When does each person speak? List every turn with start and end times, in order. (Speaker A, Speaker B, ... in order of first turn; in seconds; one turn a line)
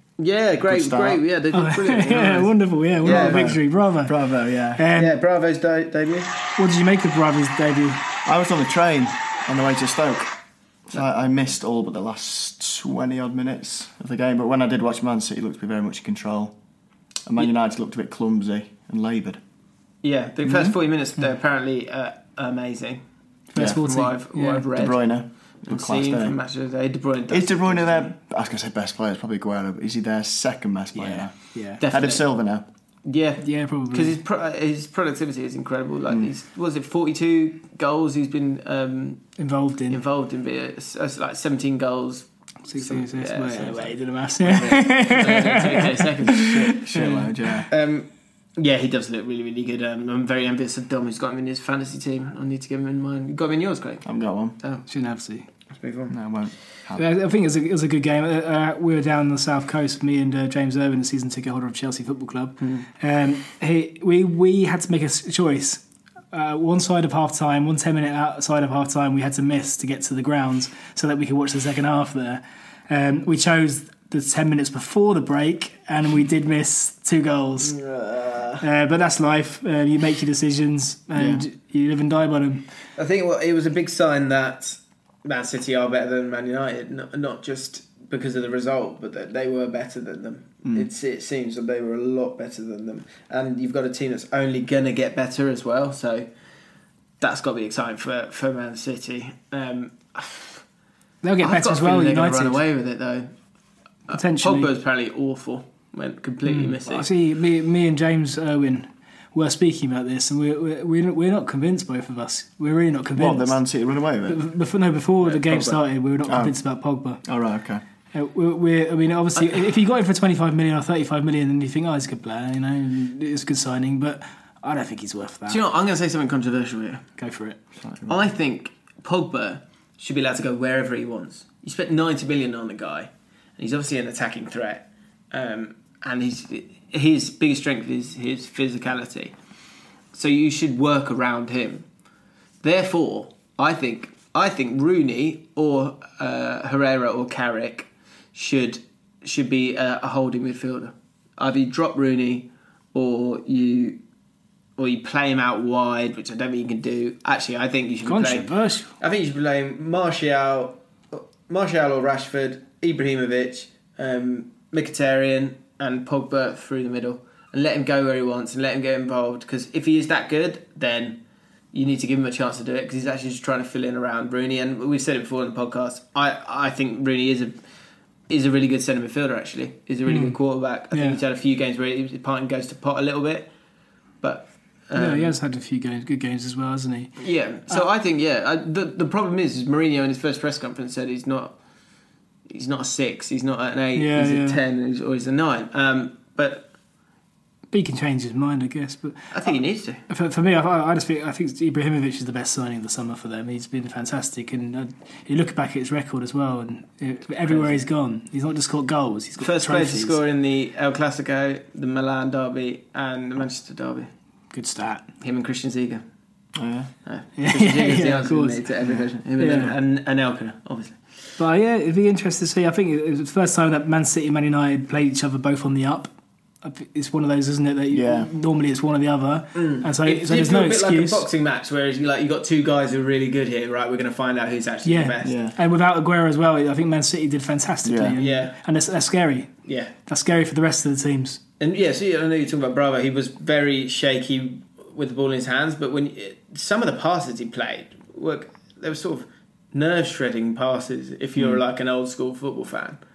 Speaker A: 0.2-3.5
Speaker B: 0.6-1.2
Speaker C: 1.5-4.1
Speaker B: 3.0-4.8
Speaker C: 4.8-5.1
Speaker A: 5.0-6.4
Speaker C: 6.6-8.0
Speaker B: 8.2-10.3
Speaker B: 10.9-16.6
Speaker B: 17.3-19.4
Speaker A: 20.0-23.0
Speaker B: 20.4-20.8
Speaker C: 23.5-24.6
Speaker A: 23.6-28.1
Speaker B: 24.7-26.4
Speaker B: 27.3-32.6
Speaker C: 30.9-31.8
Speaker A: 31.8-32.3
Speaker A: 33.0-39.2
Speaker C: 33.4-34.2
Speaker C: 39.4-40.0
Speaker A: 39.9-46.8
Speaker C: 42.7-47.3
Speaker B: 46.4-47.7
Speaker A: 47.7-54.1
Speaker B: 54.0-54.6
Speaker C: 54.9-55.5
Speaker A: 55.8-56.1
Speaker B: 56.1-57.1
Speaker C: 57.0-77.8
Speaker A: 62.6-62.9
Speaker A: 77.6-78.6
Speaker C: 78.6-82.6
Speaker B: 81.1-81.5
Speaker A: 83.0-96.3
Speaker A: 97.2-100.6
Speaker C: 101.2-102.6
Speaker A: 101.4-103.3
Speaker A: 104.1-107.1
Speaker C: 104.1-104.7
Speaker C: 106.5-113.6
Speaker B: 113.1-114.4
Speaker C: 114.3-117.2
Speaker B: 115.5-115.8
Speaker B: 116.3-116.6
Speaker B: 117.2-117.8
Speaker C: 118.1-125.6
Speaker A: 125.5-127.0
Speaker C: 127.2-127.6
Speaker B: 127.8-128.2
Speaker A: 128.1-139.3
Speaker A: 140.1-141.8
Speaker A: 142.6-154.0
Speaker A: 154.8-171.2
Speaker C: 158.1-158.9
Speaker A: 171.7-177.6
Speaker A: 178.3-183.5
Speaker C: 180.1-180.4
Speaker C: 180.9-181.2
Speaker A: 184.2-185.3
Speaker C: 184.9-187.2
Speaker A: 187.2-191.6
Speaker A: 192.5-196.7
Speaker C: 194.0-194.6
Speaker C: 197.7-199.2
Speaker A: 199.3-200.0
Speaker C: 200.1-210.2
Speaker A: 207.5-207.8
Speaker A: 209.4-214.1
Speaker C: 214.5-215.1
Speaker A: 215.2-216.0
Speaker B: 216.6-216.9
Speaker A: 217.1-221.0
Speaker C: 217.4-218.6
Speaker C: 219.4-219.7
Speaker C: 221.4-226.1
Speaker C: 226.6-231.2
Speaker B: 227.9-228.3
Speaker A: 229.6-235.3
Speaker C: 234.8-239.5
Speaker B: 235.2-235.6
Speaker B: 237.8-238.2
Speaker A: 238.2-238.6
Speaker A: 239.7-239.9
Speaker C: 240.1-241.4
Speaker A: 241.6-253.0